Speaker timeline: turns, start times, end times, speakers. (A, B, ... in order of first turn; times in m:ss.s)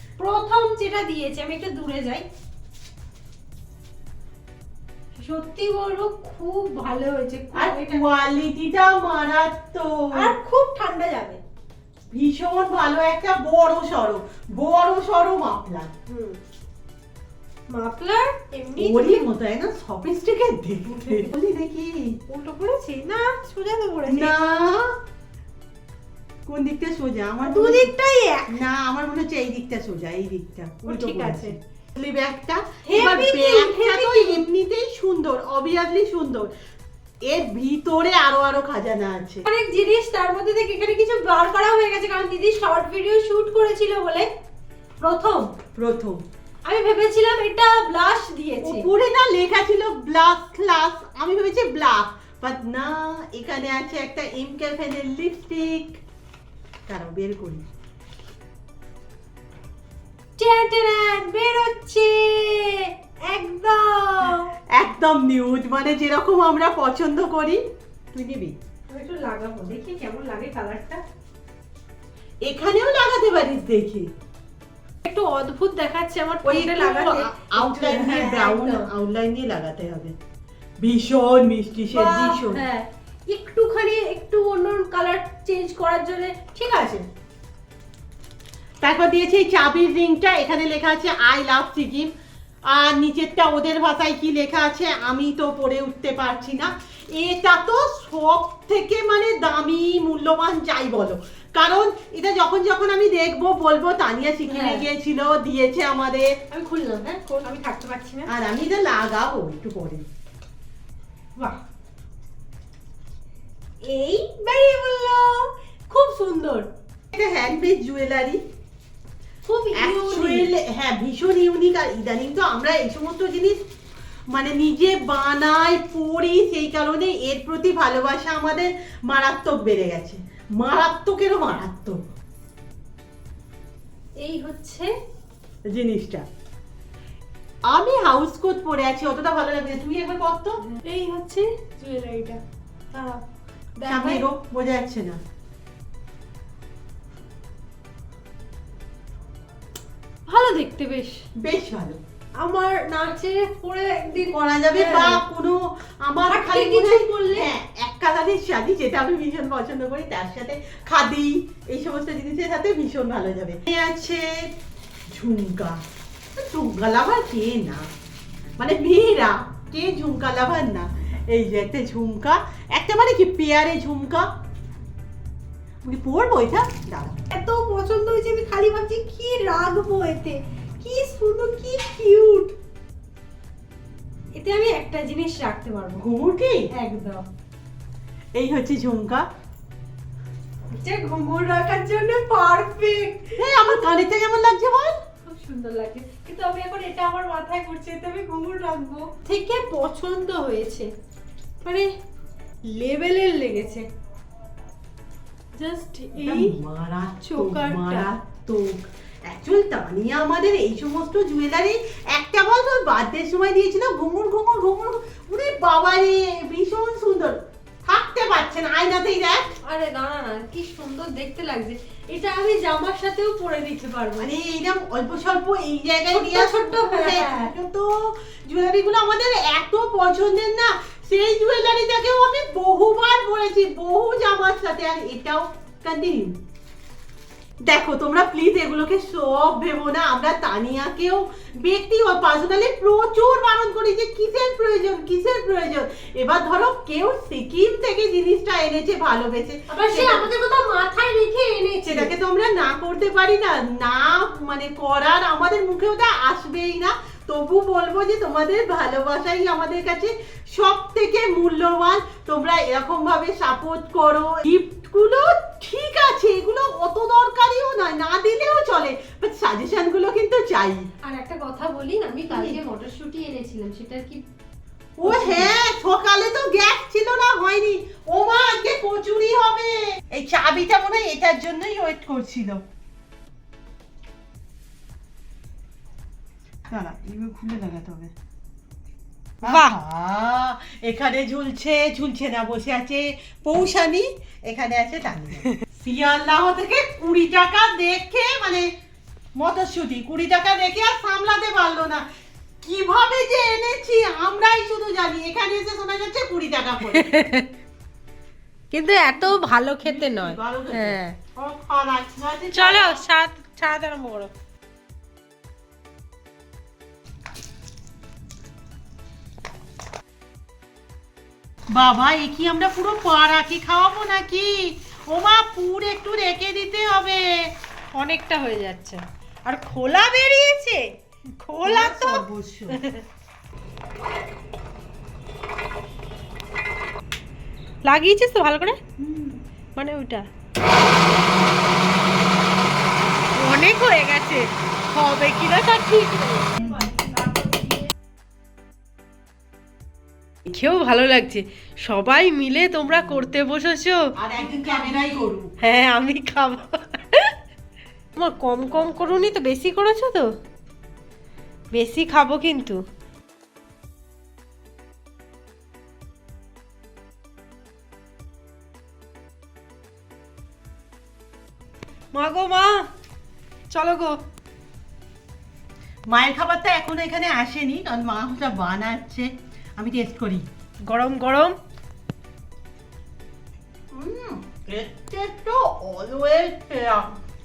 0:00.2-0:02.2 A
0:05.2-0:08.1 A
0:07.5-0:10.3 B
0:10.1-0:11.4 A
0:12.1-0:15.9 B
0:16.1-0:16.4 A
0:17.7-0:19.3 A
0:18.8-0:22.2 B
0:20.9-0:21.3 A
0:22.3-0:24.3 A
0:24.1-0:25.0 B
0:26.4-0:27.9 B
0:27.4-0:28.6 A
0:28.5-0:36.5 B
0:30.8-0:31.5 A
0:32.8-0:34.4 A
0:37.2-0:39.4 B
0:39.5-0:44.3 A
0:45.0-0:45.6 A
0:45.8-0:46.2 B
0:46.6-0:48.9 A
0:48.6-0:56.0 B
0:56.9-0:57.6 B
1:00.4-1:04.5 A
1:04.7-1:08.6 B
1:08.9-1:11.0 A
1:12.4-1:14.1 B
1:15.0-1:18.9 A
1:16.4-1:20.1 B
1:20.8-1:22.6 B
1:21.9-1:27.1 A
1:28.8-1:32.1 B
1:32.6-1:46.3 B
1:44.5-1:44.8 A
1:46.5-1:48.3 A
1:48.3-1:50.0 B
1:53.8-1:56.6 A
1:57.1-1:58.4 B
1:59.4-2:00.5 A
1:59.7-2:03.6 B
2:04.3-2:12.0 B
2:14.2-2:14.9 A
2:15.7-2:16.2 B
2:17.6-2:20.6 B
2:20.7-2:22.4 A
2:22.9-2:23.2 A
2:23.8-2:24.2 A
2:23.8-2:25.2 B
2:30.3-2:31.2 A
2:31.4-2:32.0 B
2:32.4-2:35.2 A
2:34.2-2:44.5 B
2:36.3-2:37.5 A
2:45.1-2:45.8 B
2:46.4-2:47.9 B
2:48.6-2:54.3 B
2:55.8-2:57.2 B
2:57.3-3:02.6 A
3:04.3-3:06.0 A
3:06.0-3:06.7 B
3:06.7-3:07.3 A
3:08.3-3:09.2 B
3:10.8-3:13.4 A
3:13.4-3:15.0 B
3:15.2-3:20.9 A
3:21.6-3:21.9 A
3:22.6-3:23.8 A
3:25.5-3:26.6 A
3:26.1-3:39.5 B
3:27.2-3:28.1 A
3:39.6-3:44.3 A
3:44.2-3:56.4 B
3:46.1-3:47.5 A
3:57.6-4:10.3 B
4:09.7-4:12.1 A
4:11.8-4:30.9 B
4:31.0-4:34.2 A
4:32.3-4:32.6 B
4:35.0-4:42.6 B
4:35.0-4:35.5 A
4:46.7-4:48.1 B
4:49.4-4:58.7 B
4:49.4-4:49.8 A
4:59.3-5:02.0 B
5:02.6-5:07.2 B
5:06.9-5:07.5 A
5:08.7-5:11.2 A
5:09.2-5:13.0 B
5:12.5-5:14.3 A
5:21.7-5:27.5 B
5:27.9-5:33.0 A
5:31.6-5:32.8 B
5:37.8-5:38.8 A
5:39.0-5:39.4 B
5:39.8-5:40.2 A
5:43.3-5:47.9 A
5:50.4-5:57.3 A
5:54.2-5:55.5 B
5:58.2-6:00.3 A
6:01.7-6:02.8 A
6:12.1-6:12.8 A
6:13.7-6:14.2 A
6:16.1-6:20.4 B
6:20.8-6:21.5 A
6:23.9-6:27.1 B